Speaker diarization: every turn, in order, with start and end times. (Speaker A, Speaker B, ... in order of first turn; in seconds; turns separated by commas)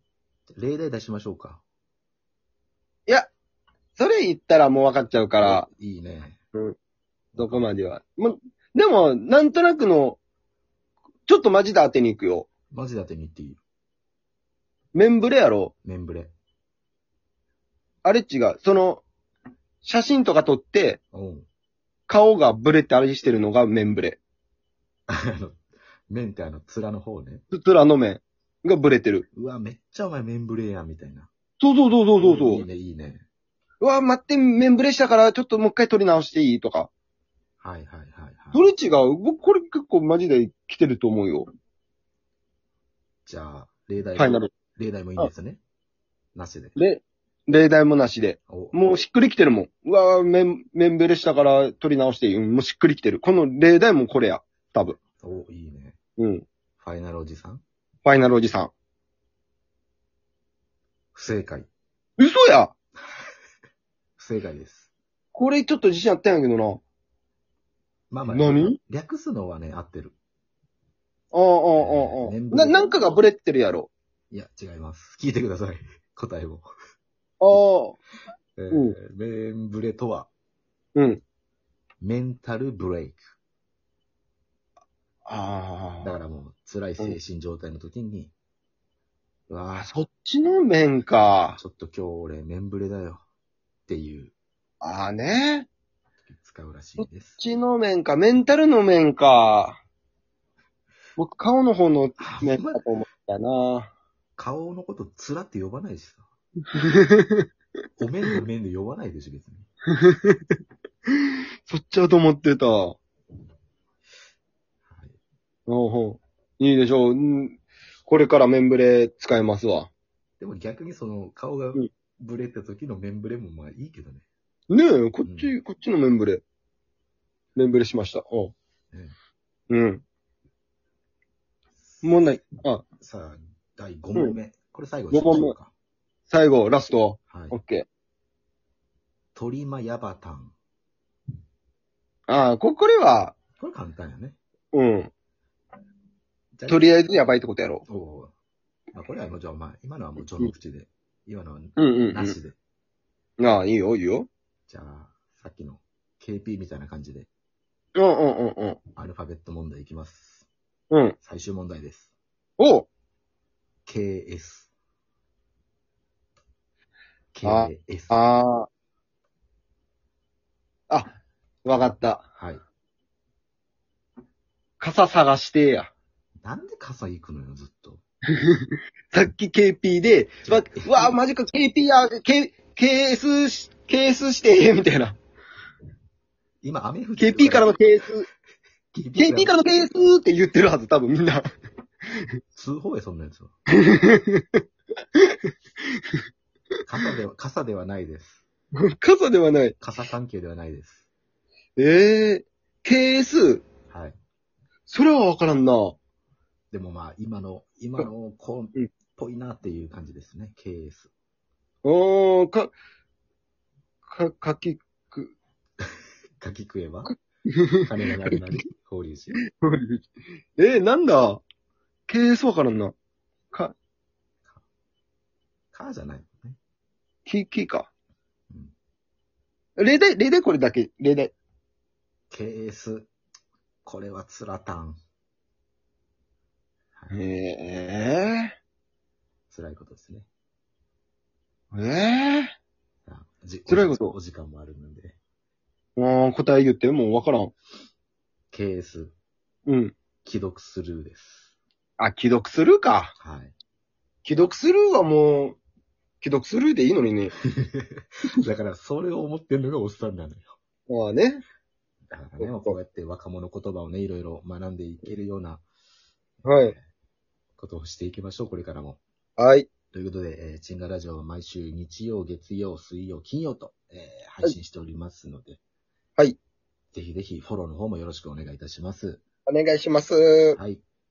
Speaker A: 0.5-1.6, Speaker B: 4.0-5.7, Speaker A: 5.4-6.4, Speaker A: 7.3-7.7, Speaker B: 7.4-10.2, Speaker B: 11.3-12.5, Speaker A: 12.7-13.6, Speaker B: 14.9-15.7, Speaker A: 15.8-16.3, Speaker B: 18.1-19.0, Speaker B: 19.8-21.0, Speaker A: 21.1-21.5, Speaker B: 22.1-24.2, Speaker A: 25.1-27.4, Speaker B: 27.5-29.3, Speaker A: 29.3-31.3, Speaker B: 31.6-32.7, Speaker A: 32.2-33.2, Speaker B: 33.8-36.9, Speaker A: 37.6-38.7, Speaker B: 38.5-41.5, Speaker A: 43.3-45.6, Speaker B: 44.2-44.5, Speaker A: 46.4-46.8, Speaker B: 46.8-55.0, Speaker A: 48.5-48.8, Speaker A: 55.2-56.0, Speaker B: 56.2-56.4, Speaker A: 56.8-57.6, Speaker B: 58.0-58.7, Speaker A: 61.1-61.7, Speaker B: 62.2-62.7, Speaker A: 64.2-64.9, Speaker B: 65.3-66.8, Speaker A: 68.1-70.2, Speaker B: 68.3-68.8, Speaker B: 71.3-73.9, Speaker A: 71.7-72.9, Speaker A: 74.3-76.7, Speaker B: 77.4-78.0, Speaker A: 78.6-80.3, Speaker B: 78.7-79.0, Speaker B: 81.0-81.2, Speaker A: 82.0-83.2, Speaker B: 85.2-86.1, Speaker A: 86.0-88.3, Speaker A: 89.5-89.9, Speaker B: 89.8-91.6, Speaker A: 91.5-93.2, Speaker A: 93.9-94.3, Speaker B: 94.8-95.7, Speaker A: 96.2-97.4, Speaker B: 97.0-99.8, Speaker B: 101.2-103.9, Speaker A: 102.2-102.8, Speaker A: 104.4-106.3, Speaker B: 106.7-107.5, Speaker A: 108.0-109.7, Speaker B: 110.0-110.4, Speaker B: 111.2-113.0, Speaker A: 114.9-115.2, Speaker B: 115.7-119.9, Speaker A: 120.4-124.2, Speaker B: 124.7-126.4, Speaker A: 125.2-125.5, Speaker B: 127.6-128.5, Speaker B: 129.7-130.0, Speaker A: 131.8-132.3, Speaker B: 132.0-132.8, Speaker A: 132.9-135.7, Speaker B: 135.1-135.6, Speaker B: 136.3-137.9, Speaker A: 137.3-137.6, Speaker A: 139.3-140.5, Speaker B: 142.3-143.3, Speaker A: 143.6-144.4, Speaker B: 144.7-145.1, Speaker A: 146.6-146.9, Speaker B: 146.7-147.8, Speaker A: 147.9-148.3, Speaker A: 148.9-152.6, Speaker B: 151.8-152.4, Speaker B: 153.4-154.3, Speaker A: 154.7-157.3, Speaker B: 158.0-158.8, Speaker A: 159.0-160.5, Speaker B: 160.9-161.2, Speaker A: 161.2-162.1, Speaker B: 162.6-162.9, Speaker A: 163.9-164.7, Speaker A: 167.3-168.3, Speaker B: 167.4-168.7, Speaker B: 170.9-172.2, Speaker B: 174.8-175.9, Speaker A: 176.4-178.0, Speaker B: 178.4-185.2, Speaker A: 180.4-181.2, Speaker A: 186.6-187.8, Speaker B: 187.2-188.3, Speaker A: 188.9-189.6, Speaker B: 189.2-191.4, Speaker A: 192.6-193.5, Speaker B: 193.8-194.6, Speaker A: 196.8-198.4, Speaker B: 198.8-199.8, Speaker A: 199.8-201.1, Speaker B: 201.8-203.6, Speaker A: 203.9-204.2, Speaker B: 204.9-206.0, Speaker A: 206.7-211.1, Speaker B: 211.8-212.8, Speaker B: 214.1-215.3, Speaker A: 216.4-217.2, Speaker A: 217.8-219.4, Speaker B: 219.6-220.0, Speaker B: 220.6-221.4, Speaker B: 222.1-222.9, Speaker A: 225.7-226.6, Speaker B: 227.3-227.9, Speaker B: 229.8-231.3, Speaker A: 232.3-233.1, Speaker A: 233.8-235.0, Speaker B: 237.1-238.6, Speaker A: 239.5-240.3, Speaker B: 241.7-242.5, Speaker A: 243.1-245.2, Speaker B: 243.7-244.1, Speaker B: 246.0-247.5, Speaker A: 248.5-249.1, Speaker B: 249.7-249.9, Speaker A: 250.2-251.5, Speaker B: 252.0-253.1, Speaker A: 253.2-253.5, Speaker B: 254.2-255.6, Speaker B: 256.2-257.3, Speaker A: 257.4-260.6, Speaker B: 260.9-261.4, Speaker A: 262.1-265.6, Speaker B: 262.4-262.8, Speaker A: 266.4-266.8, Speaker B: 266.4-266.8, Speaker A: 267.6-269.0, Speaker B: 269.4-269.7, Speaker A: 269.9-275.6, Speaker A: 276.9-279.2, Speaker B: 279.5-280.6, Speaker A: 280.6-280.8